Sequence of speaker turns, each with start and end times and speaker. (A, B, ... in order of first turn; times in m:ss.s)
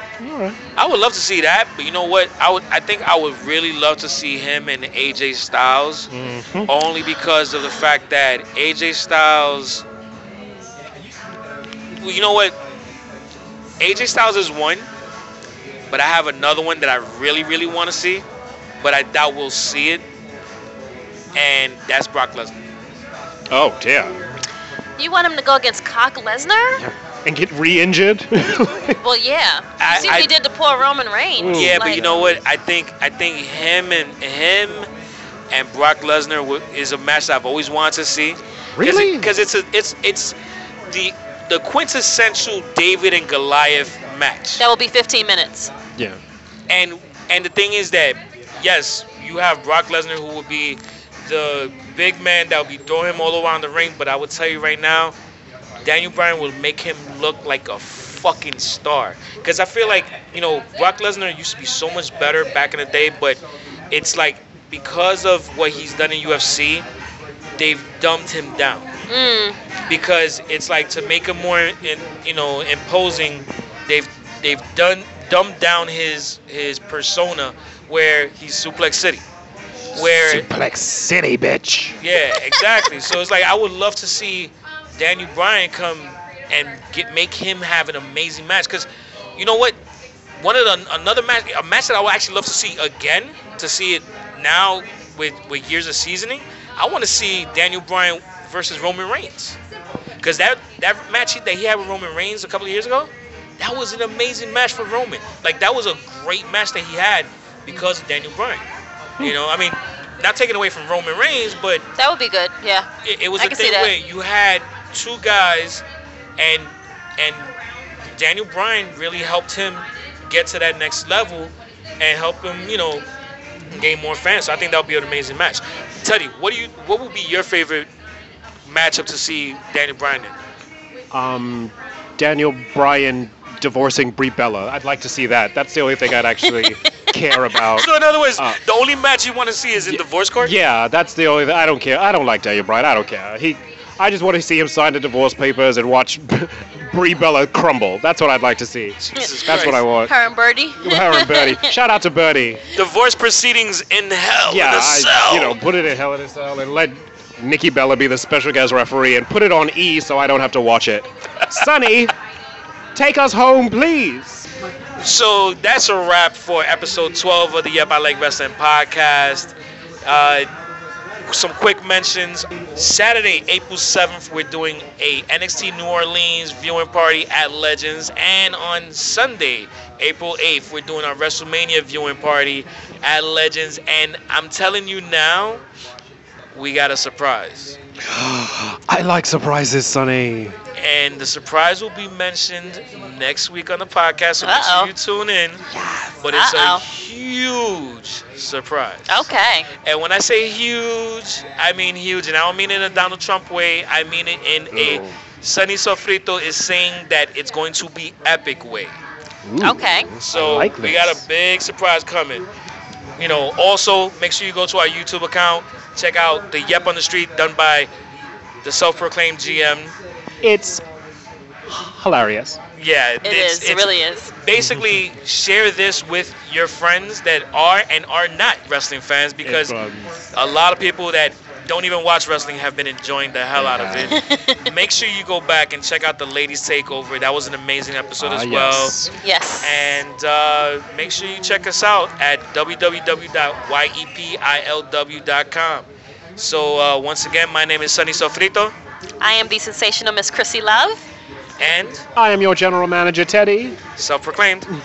0:00.2-0:00.6 A
0:00.8-0:06.1 B
0:06.1-0:06.7 A
0:06.7-0:09.8 B
0:12.0-0:12.6 B
0:13.8-0:14.9 B
0:15.9-0:18.2 B
0:18.8-0:20.0 B
0:21.3-0:22.6 B
0:23.5-0:24.2 A
0:25.0-0:26.8 C
0:26.8-0:29.0 A
0:29.0-0:32.2 C
0:29.8-0:30.3 B
0:31.4-0:32.3 A
0:31.4-0:34.9 B
0:35.5-0:40.4 B
0:38.8-0:39.3 A
0:40.9-0:44.6 B
0:44.6-0:45.7 C
0:46.7-0:55.2 B
0:55.8-1:06.8 B
1:07.6-1:08.9 B
1:09.1-1:09.6 C
1:09.9-1:19.2 B
1:19.9-1:20.5 B
1:19.9-1:22.0 A
1:22.0-1:29.8 B
1:30.4-1:39.6 B
1:40.2-1:48.6 B
1:49.2-1:51.9 B
1:52.0-1:53.9 C
1:53.0-1:55.8 B
1:56.4-1:57.5 B
1:58.2-2:03.1 B
2:03.7-2:07.9 B
2:08.7-2:10.4 B
2:11.1-2:18.6 A
2:17.6-2:20.5 B
2:19.8-2:30.2 A
2:29.0-2:29.8 B
2:29.2-2:31.8 C
2:30.8-2:32.7 A
2:32.7-2:35.6 B
2:34.5-2:42.1 A
2:43.0-2:44.5 A
2:45.0-2:50.5 B
2:51.3-3:05.6 B
3:06.5-3:07.8 B
3:08.0-3:10.6 A
3:10.8-3:15.7 B
3:14.4-3:14.9 C
3:15.7-3:16.2 A
3:16.2-3:19.3 B
3:16.3-3:16.8 C
3:19.1-3:19.7 C
3:19.8-3:29.0 B
3:24.7-3:25.2 A
3:29.4-3:31.2 A
3:29.6-3:30.1 C
3:30.2-3:32.5 B
3:33.2-3:37.9 B
3:38.6-3:40.0 B
3:40.4-3:40.8 A
3:41.7-3:42.6 A
3:42.8-3:49.8 B
3:43.2-3:44.3 C
3:44.6-3:45.0 A
3:49.4-3:50.2 A
3:50.3-3:59.0 B
3:53.6-3:54.2 A
3:54.1-3:54.6 C
3:58.2-3:59.1 A
3:59.2-3:59.8 C
3:59.6-4:08.8 B
4:09.2-4:11.0 C
4:11.6-4:12.0 B
4:12.2-4:13.8 A
4:14.0-4:14.7 B